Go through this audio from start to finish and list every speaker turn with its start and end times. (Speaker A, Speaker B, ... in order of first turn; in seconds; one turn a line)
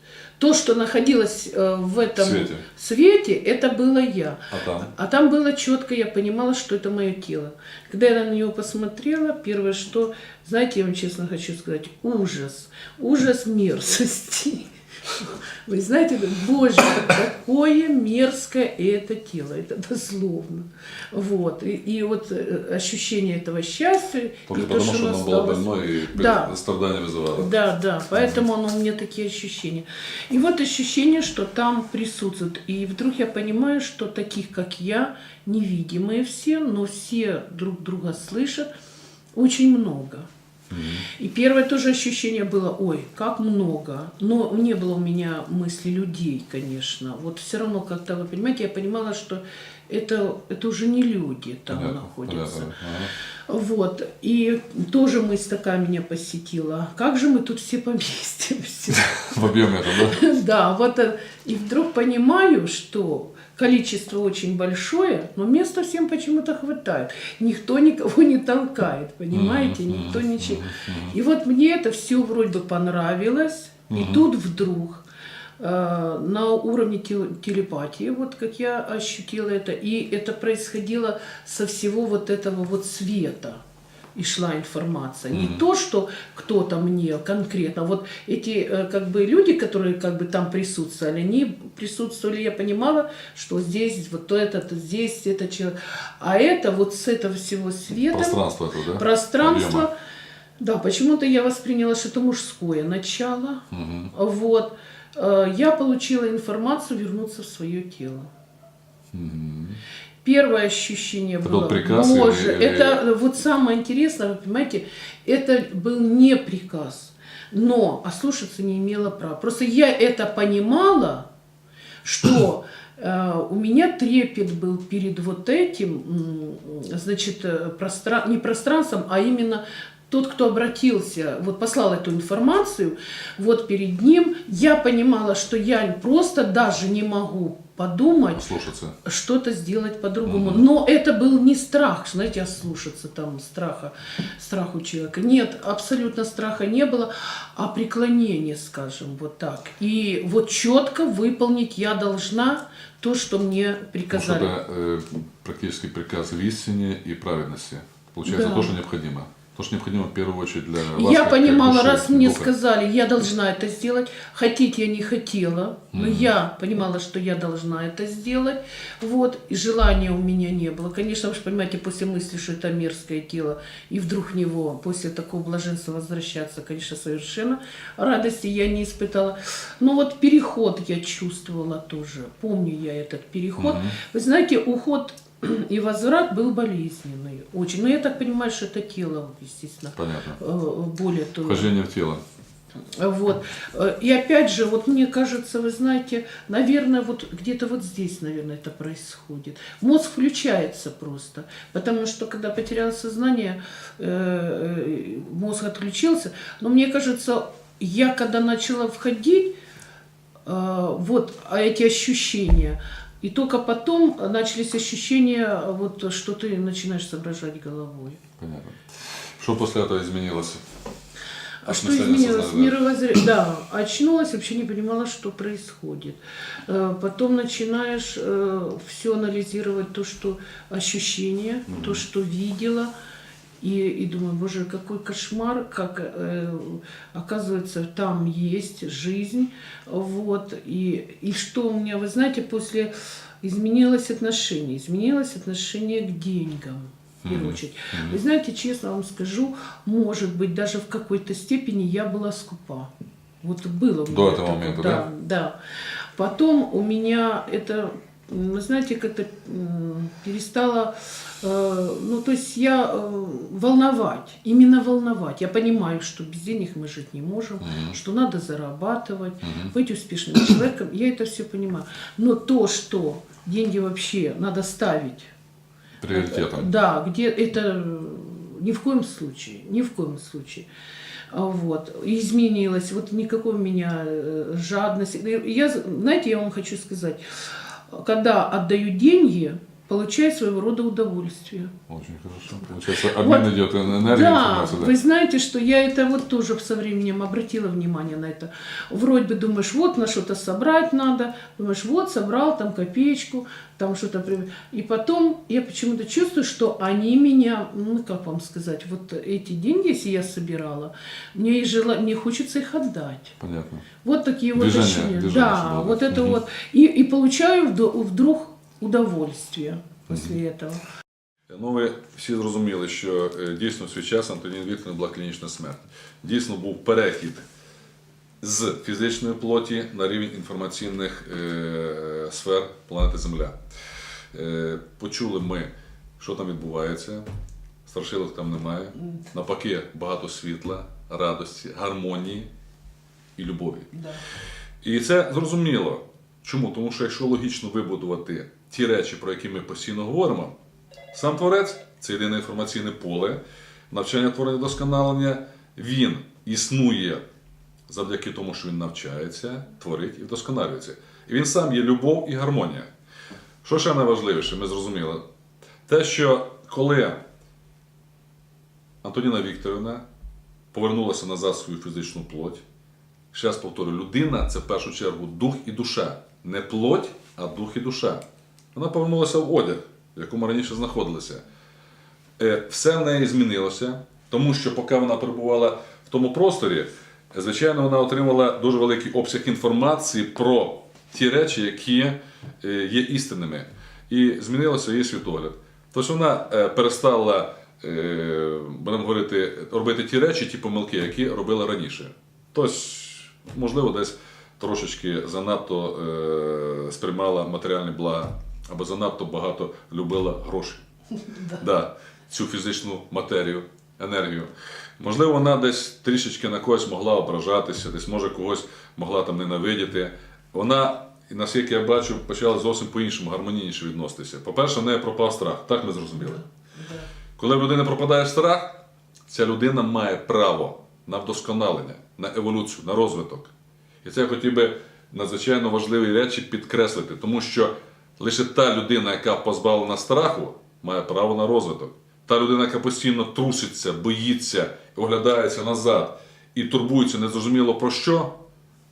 Speaker A: 0.4-26.5
Speaker B: 2.2-2.7
Speaker B: 4.5-4.9
Speaker B: 24.5-27.5
Speaker A: 27.4-38.7
Speaker A: 39.4-40.3
Speaker B: 40.7-41.1
Speaker A: 41.1-52.7
Speaker B: 51.7-53.1
Speaker A: 53.5-59.5
Speaker B: 58.9-60.2
Speaker A: 60.0-75.0
Speaker B: 69.3-71.2
Speaker B: 73.9-74.2
Speaker A: 75.6-83.6
Speaker A: 84.2-98.4
Speaker B: 85.3-85.6
Speaker B: 98.1-99.9
Speaker A: 98.9-99.9
Speaker A: 100.6-108.3
Speaker B: 103.7-104.1
Speaker B: 109.1-109.8
Speaker A: 110.2-121.3
Speaker B: 111.4-113.0
Speaker A: 122.0-138.5
Speaker B: 138.3-138.9
Speaker A: 139.0-154.5
Speaker B: 140.3-140.7
Speaker B: 154.1-162.5
Speaker A: 158.2-158.7
Speaker A: 160.9-191.7
Speaker B: 165.9-166.3
Speaker B: 183.6-184.0
Speaker B: 189.9-190.4
Speaker B: 191.4-192.2
Speaker A: 193.0-209.5
Speaker A: 210.5-218.2
Speaker B: 218.4-220.6
Speaker A: 221.6-232.9
Speaker B: 221.7-222.8
Speaker B: 231.7-232.0
Speaker A: 233.6-242.9
Speaker A: 243.4-252.9
Speaker B: 247.2-248.2
Speaker A: 253.4-255.6
Speaker B: 254.1-255.1
Speaker A: 256.2-275.3
Speaker B: 267.6-268.0
Speaker B: 269.4-269.7
Speaker B: 276.0-276.7
Speaker A: 276.1-280.7
Speaker A: 281.3-287.2
Speaker A: 287.9-291.7
Speaker B: 291.9-294.9
Speaker A: 293.1-313.4
Speaker B: 313.4-313.9
Speaker A: 314.0-320.8
Speaker B: 314.5-316.4
Speaker B: 320.1-320.4
Speaker B: 321.5-327.4
Speaker B: 328.4-333.6
Speaker B: 334.3-337.3
Speaker B: 337.9-342.5
Speaker B: 343.4-343.9
Speaker A: 343.9-344.2
Speaker B: 344.8-350.5
Speaker B: 351.1-357.2
Speaker B: 357.9-362.9
Speaker B: 363.6-365.2
Speaker B: 365.9-367.2
Speaker B: 369.0-370.0
Speaker B: 370.7-372.6
Speaker B: 373.3-378.2
Speaker B: 378.7-381.4
Speaker B: 382.4-410.8
Speaker A: 411.3-411.6
Speaker B: 411.6-426.4
Speaker A: 426.2-427.1
Speaker B: 427.4-433.5
Speaker B: 434.0-448.4